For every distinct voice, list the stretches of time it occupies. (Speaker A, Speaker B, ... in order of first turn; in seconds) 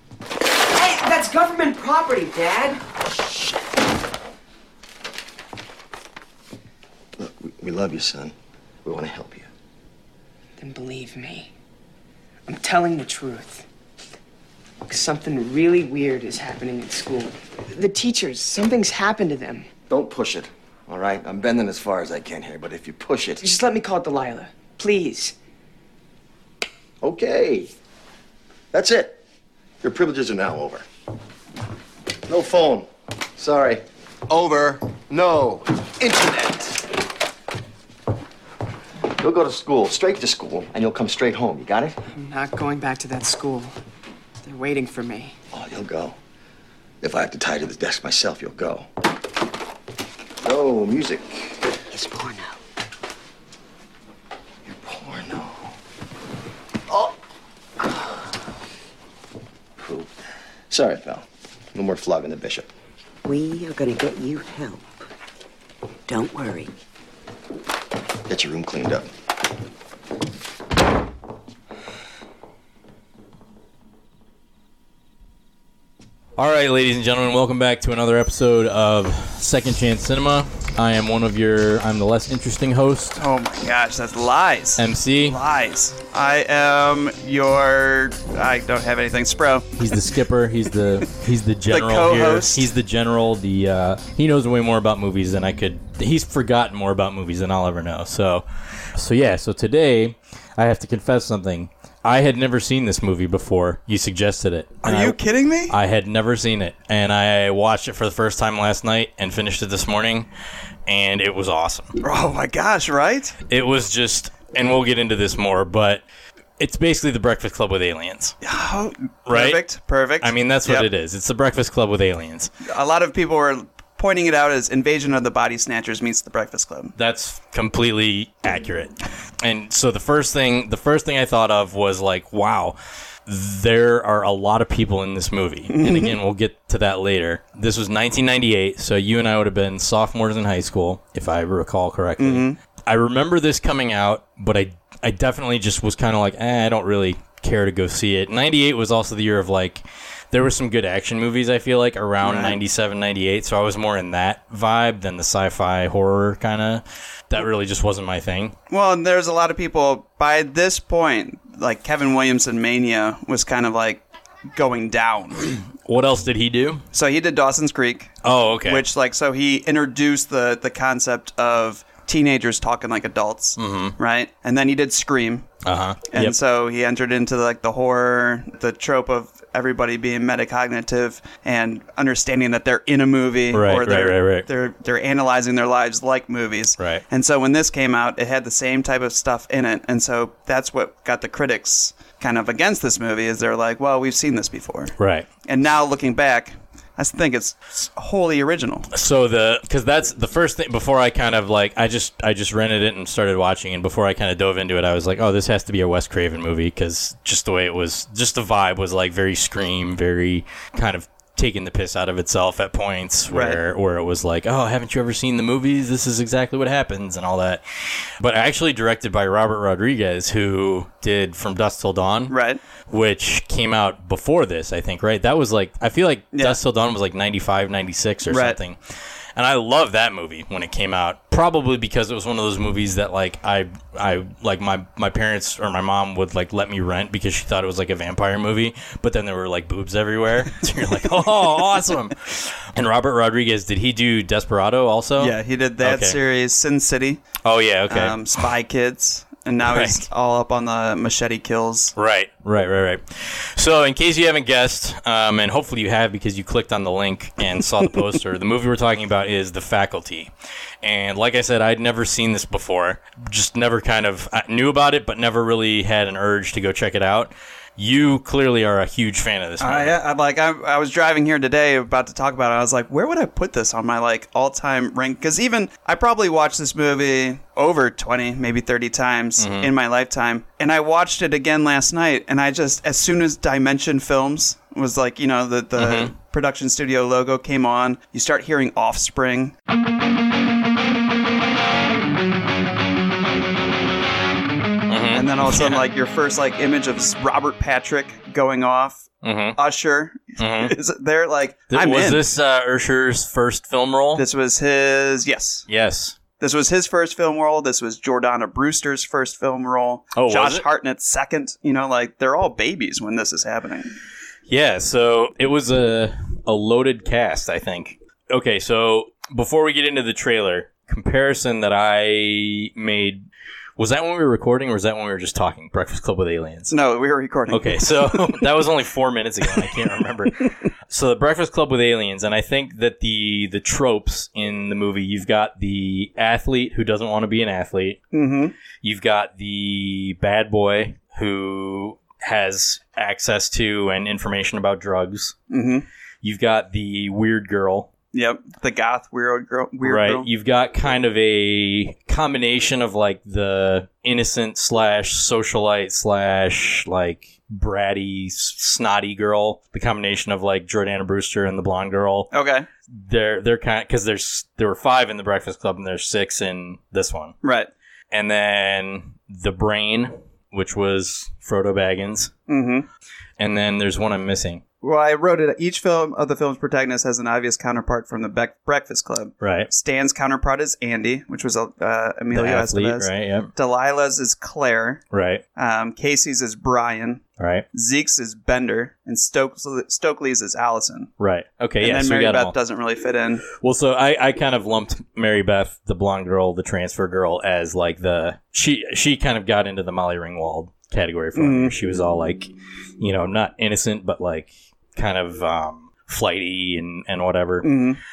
Speaker A: 0.7-2.8, 10.6-11.5, 12.5-13.7, 14.8-19.7, 23.4-25.4, 42.1-43.8, 44.4-45.4
Speaker B: 7.2-9.5, 19.9-23.6, 27.0-27.7, 28.7-29.2, 29.8-30.9, 32.3-36.8, 39.1-42.0, 45.5-46.2, 47.0-48.9, 50.4-51.6, 54.6-55.7, 57.8-58.2, 59.8-60.1, 60.7-62.7, 68.3-69.1
Speaker C: 51.9-52.6, 63.2-65.0, 66.1-66.7
Speaker D: 76.4-83.2, 84.8-85.4, 89.8-110.3, 110.9-111.9, 113.5-116.0, 116.6-118.4, 119.3-119.6, 120.2-122.5, 127.0-158.6, 165.8-166.8, 168.2-168.8, 173.6-174.0, 175.6-176.3, 183.5-184.5, 195.0-195.3, 198.9-217.6, 218.2-222.3, 222.9-228.8, 229.4-246.2, 247.4-248.2, 249.6-250.0, 251.9-260.3, 260.8-270.0, 279.4-279.7, 285.8-286.1, 294.9-295.8, 299.2-299.6, 300.4-300.8, 301.7-304.2, 305.7-306.2, 310.1-310.7, 314.5-323.2, 323.8-326.7, 327.5-338.0, 338.8-345.4, 346.2-347.9, 349.8-362.3, 363.0-367.4, 368.1-372.3, 373.4-374.6, 379.4-379.7, 382.3-383.5, 385.1-385.4, 387.4-387.7, 391.2-392.6, 393.5-407.7
Speaker E: 83.2-89.7, 91.7-92.7, 104.8-105.7, 112.0-113.4, 118.4-120.9, 122.6-126.9, 135.7-136.1, 142.2-142.6, 152.2-152.6, 158.7-164.0, 164.5-165.5, 166.9-175.5, 176.1-194.9, 195.5-198.9, 213.3-213.6, 222.3-222.6, 226.3-226.6, 228.3-228.6, 245.2-247.2, 247.9-251.9, 269.6-289.6, 295.1-299.1, 299.6-302.2, 304.2-305.7, 306.4-313.9, 326.7-328.4, 338.1-338.5, 345.5-345.9, 348.1-350.3, 362.3-362.7, 367.4-367.7, 372.5-372.9, 374.8-385.0, 385.6-387.2, 387.7-391.1, 391.8-393.4, 401.4-401.7, 407.6-408.0